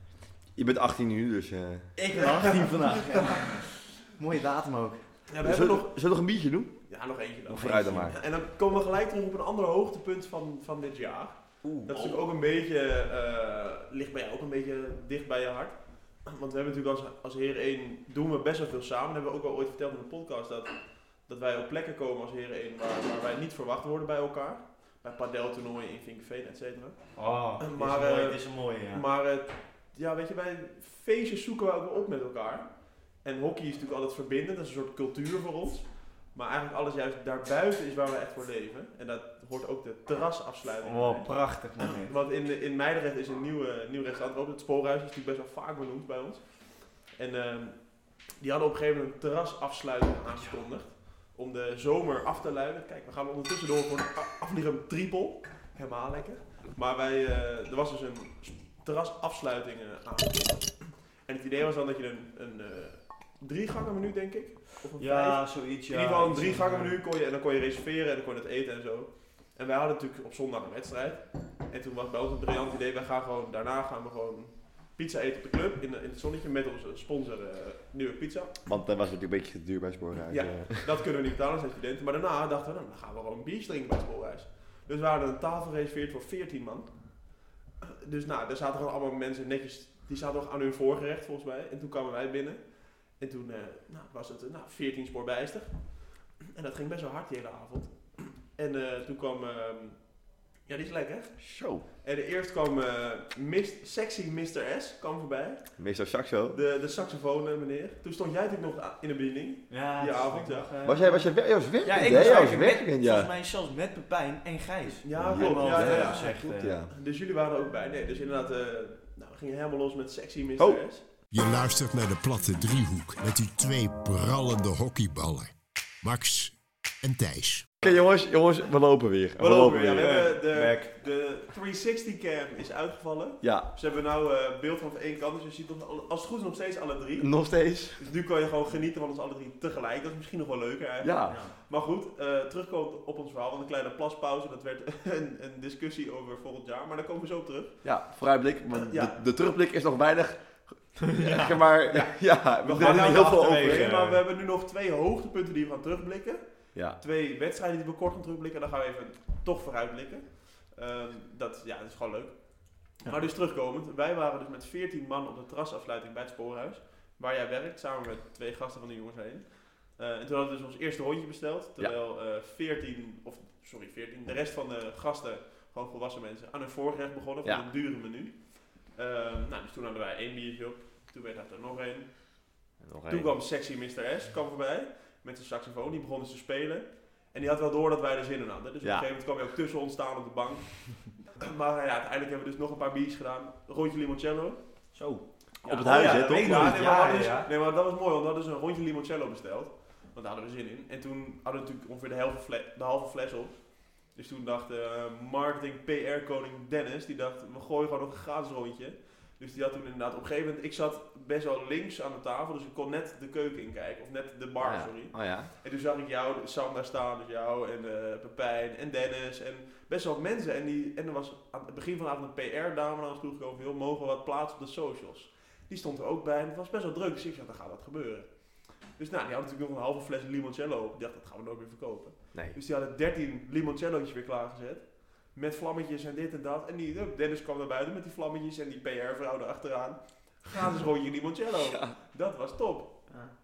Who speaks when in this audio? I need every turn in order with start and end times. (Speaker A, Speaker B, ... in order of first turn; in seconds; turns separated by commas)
Speaker A: 0.6-1.9, Speaker B: 2.0-5.0, Speaker C: 2.2-3.4, Speaker C: 5.3-6.0, Speaker A: 5.4-6.8, Speaker C: 6.9-78.6, Speaker A: 7.5-8.2, Speaker B: 7.7-8.0, Speaker B: 11.6-12.2, Speaker B: 27.2-29.0, Speaker B: 40.8-42.1, Speaker B: 65.0-67.0, Speaker A: 78.7-80.9, Speaker C: 80.3-105.8, Speaker A: 101.4-101.8, Speaker A: 105.8-106.6, Speaker C: 106.5-110.7, Speaker B: 109.7-111.3, Speaker A: 110.8-113.3, Speaker B: 111.8-116.8, Speaker C: 112.0-112.6, Speaker C: 115.0-121.0, Speaker A: 115.2-116.9, Speaker D: 121.3-127.7, Speaker A: 127.8-130.1, Speaker C: 129.4-147.8, Speaker B: 129.9-130.9, Speaker A: 133.4-133.7, Speaker A: 137.2-138.0, Speaker A: 141.0-141.4, Speaker B: 141.3-141.5, Speaker A: 147.8-153.8, Speaker C: 148.7-149.2, Speaker B: 151.0-151.6, Speaker C: 151.9-194.6, Speaker B: 152.8-154.2, Speaker A: 182.8-183.3, Speaker B: 194.9-197.5, Speaker C: 195.6-243.1, Speaker A: 195.7-196.9, Speaker A: 214.6-215.5, Speaker A: 241.7-241.9